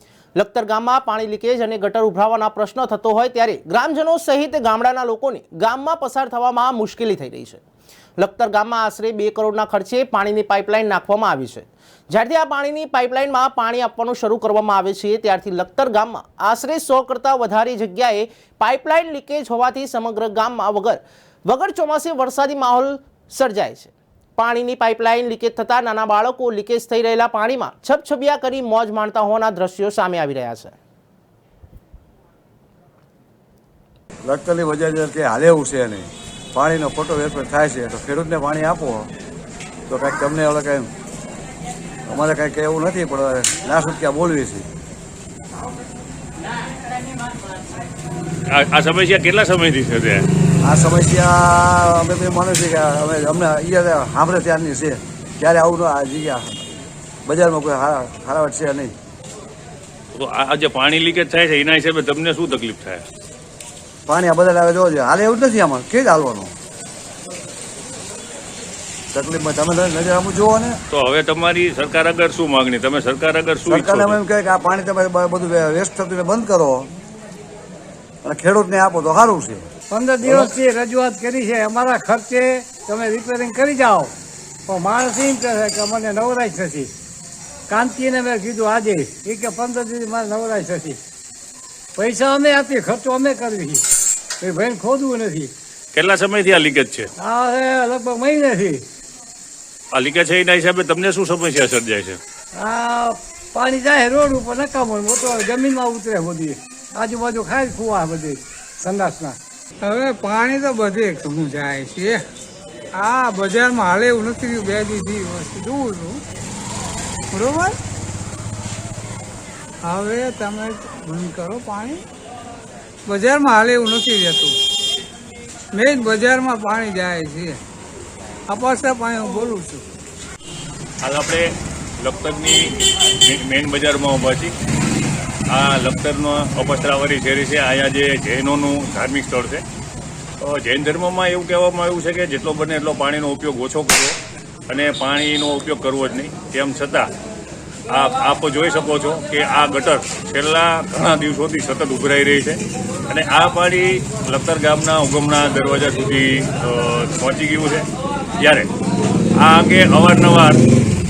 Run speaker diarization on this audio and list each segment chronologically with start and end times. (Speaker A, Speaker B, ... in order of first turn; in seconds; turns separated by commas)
Speaker A: 0.4-7.6, Speaker A: 8.2-30.8, Speaker B: 34.2-39.1, Speaker B: 39.9-40.9, Speaker B: 42.1-44.7, Speaker C: 48.5-50.3, Speaker B: 50.6-59.0, Speaker C: 60.1-63.0, Speaker B: 64.1-66.5, Speaker B: 69.1-70.8, Speaker C: 70.9-74.2, Speaker B: 73.7-76.9, Speaker B: 78.2-79.7, Speaker D: 79.9-84.1, Speaker B: 80.2-80.5, Speaker D: 84.7-86.9, Speaker D: 87.7-91.0, Speaker D: 92.0-93.9, Speaker D: 94.4-95.5, Speaker C: 95.9-97.1, Speaker D: 97.2-98.8, Speaker C: 99.9-102.2, Speaker D: 102.5-109.4, Speaker E: 109.8-112.2, Speaker E: 113.0-116.2, Speaker E: 117.3-117.8, Speaker E: 119.9-122.0, Speaker E: 123.1-124.6, Speaker E: 125.7-127.6, Speaker E: 128.5-129.8, Speaker C: 131.0-131.5, Speaker C: 132.0-134.5, Speaker C: 135.5-139.6, Speaker C: 140.4-144.2, Speaker C: 144.7-147.1, Speaker C: 147.9-157.9, Speaker C: 158.4-158.7, Speaker C: 159.4-160.6